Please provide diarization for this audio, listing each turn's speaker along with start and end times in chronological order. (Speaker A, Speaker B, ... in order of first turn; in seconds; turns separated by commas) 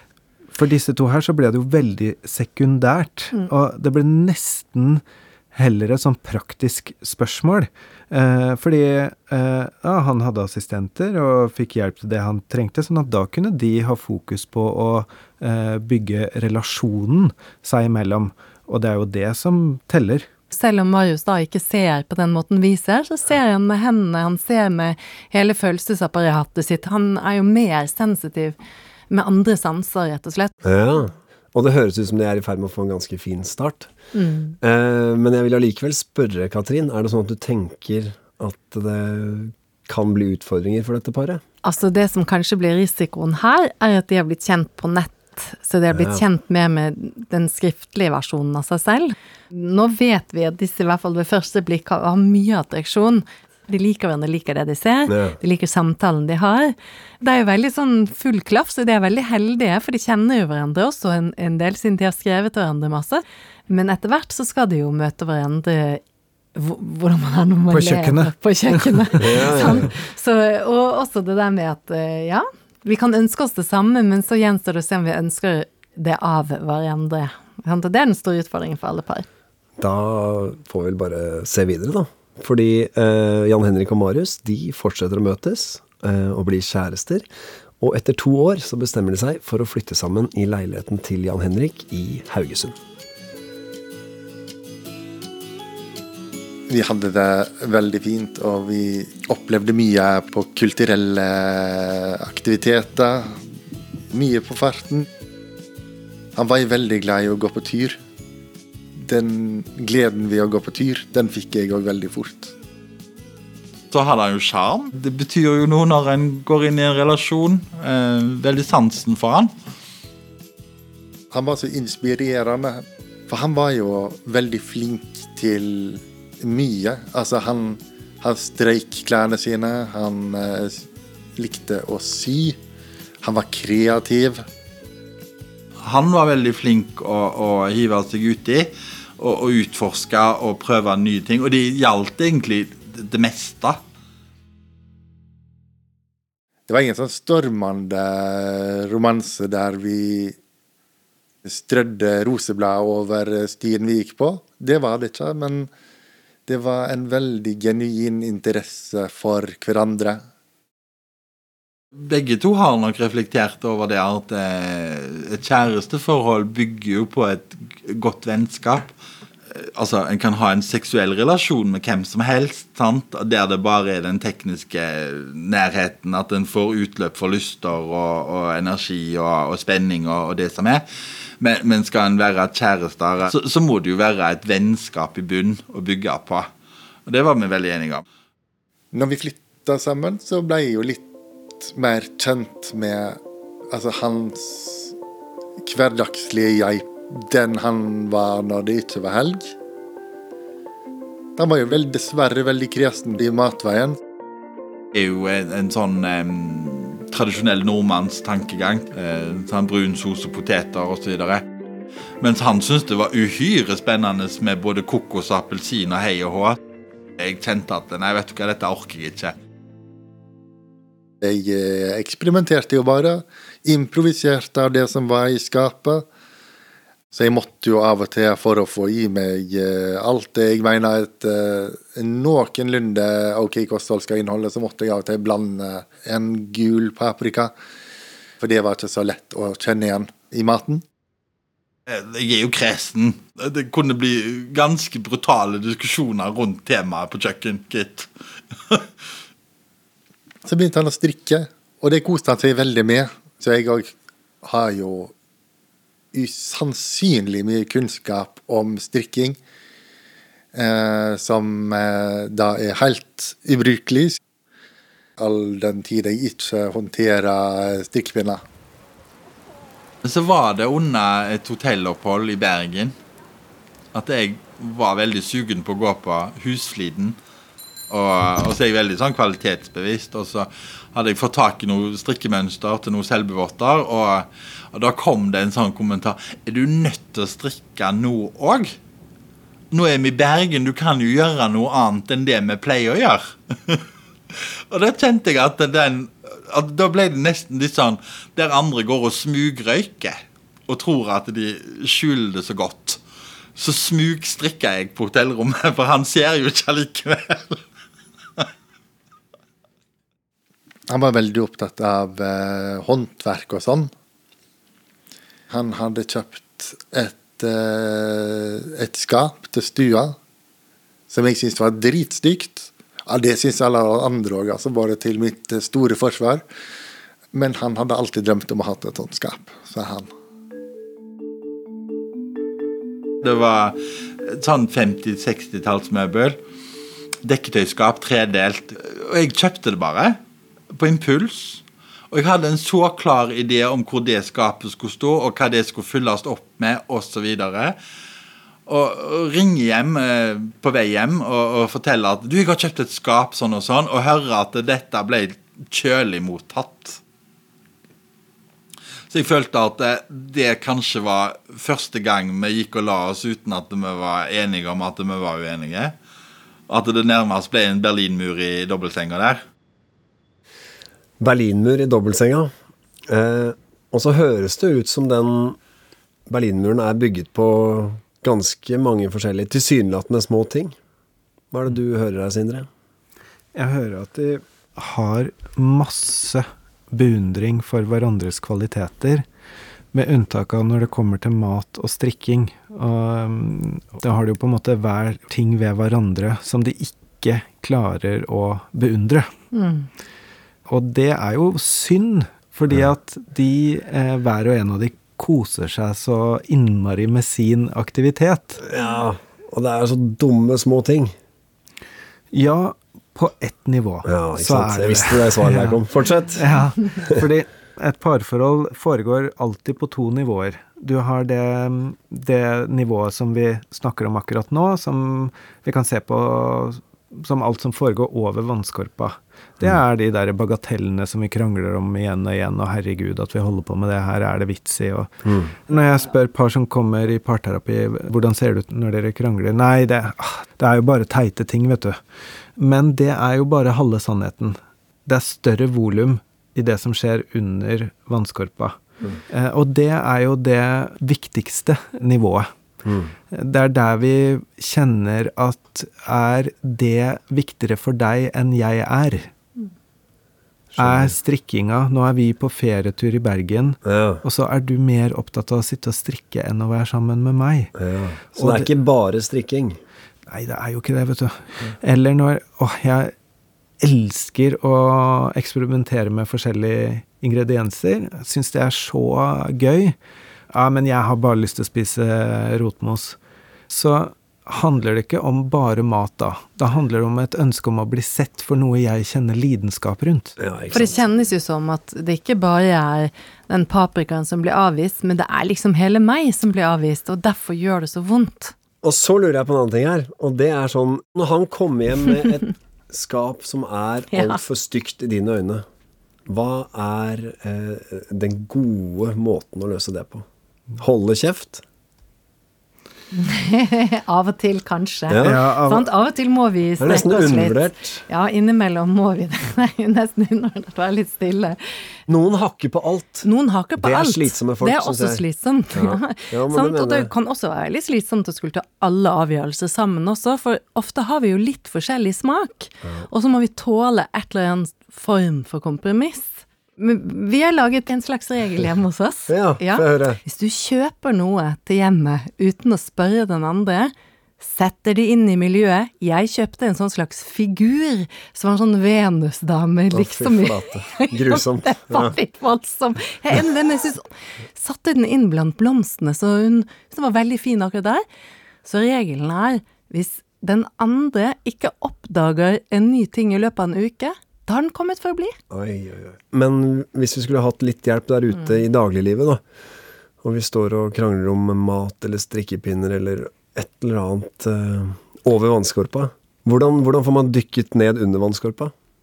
Speaker A: 0.5-20.3, Speaker B: 20.5-28.6, Speaker B: 29.1-30.5, Speaker C: 30.6-33.9, Speaker B: 34.1-34.6, Speaker C: 34.6-41.4, Speaker B: 41.6-66.0, Speaker C: 45.9-46.2, Speaker C: 55.1-55.4, Speaker B: 66.5-79.3, Speaker A: 67.7-69.3, Speaker C: 69.2-69.9, Speaker C: 79.8-87.3, Speaker C: 87.8-92.8, Speaker D: 96.7-103.5, Speaker D: 104.1-105.1, Speaker D: 106.4-108.0, Speaker D: 109.0-112.5, Speaker E: 113.9-119.5, Speaker D: 121.3-132.6, Speaker D: 133.2-134.4, Speaker E: 135.8-143.8, Speaker D: 146.7-150.4, Speaker D: 151.4-155.7, Speaker D: 156.5-160.2, Speaker E: 162.0-168.9, Speaker E: 169.5-180.8, Speaker E: 181.4-186.5, Speaker E: 187.1-188.0, Speaker D: 188.9-191.1, Speaker D: 191.6-194.9, Speaker D: 195.6-199.6, Speaker D: 201.4-204.0, Speaker E: 204.9-211.4, Speaker E: 212.2-216.6, Speaker E: 217.2-219.3, Speaker D: 221.2-226.1, Speaker D: 227.1-237.5, Speaker D: 238.4-240.8, Speaker E: 241.9-248.1, Speaker D: 250.5-255.1, Speaker D: 256.1-259.4, Speaker D: 260.5-264.2, Speaker D: 265.2-268.4, Speaker E: 270.0-272.9, Speaker E: 273.9-277.2, Speaker E: 277.9-288.8, Speaker E: 289.7-293.8, Speaker E: 294.4-303.0, Speaker E: 303.6-307.6, Speaker D: 310.9-313.9, Speaker D: 315.5-320.2, Speaker D: 321.1-326.4, Speaker D: 327.3-330.1, Speaker E: 333.2-336.4, Speaker E: 337.2-340.2, Speaker E: 340.7-347.8, Speaker E: 348.7-357.0, Speaker E: 359.1-365.9, Speaker E: 366.7-369.4, Speaker C: 371.2-372.5, Speaker C: 373.1-375.6, Speaker C: 376.3-380.8, Speaker C: 381.5-382.7, Speaker A: 383.5-389.2, Speaker A: 389.9-399.3, Speaker B: 399.5-399.9, Speaker A: 400.7-408.6, Speaker C: 408.6-411.1, Speaker A: 412.3-415.8, Speaker C: 414.1-416.4, Speaker A: 416.4-435.1, Speaker C: 435.3-435.5, Speaker A: 435.7-442.0, Speaker A: 442.6-448.8, Speaker A: 449.3-452.5, Speaker C: 452.9-453.1, Speaker A: 453.3-459.3, Speaker C: 460.8-461.1, Speaker A: 460.8-467.7, Speaker C: 463.9-464.2, Speaker C: 467.8-469.8, Speaker A: 468.4-468.7, Speaker A: 470.3-473.1, Speaker A: 473.8-480.0, Speaker A: 480.5-483.2, Speaker A: 483.7-490.4, Speaker C: 490.4-491.0, Speaker B: 490.7-498.5, Speaker C: 498.8-505.6, Speaker B: 504.1-504.4, Speaker C: 506.3-510.3, Speaker C: 510.8-511.6, Speaker B: 513.1-521.6, Speaker C: 515.1-515.4, Speaker A: 515.2-515.9, Speaker C: 516.8-518.0, Speaker C: 522.1-523.3, Speaker B: 523.2-558.0, Speaker C: 523.8-527.1, Speaker C: 532.8-533.1, Speaker C: 539.3-540.2, Speaker C: 549.9-552.1, Speaker B: 558.6-565.4, Speaker C: 565.5-569.5, Speaker C: 570.2-578.7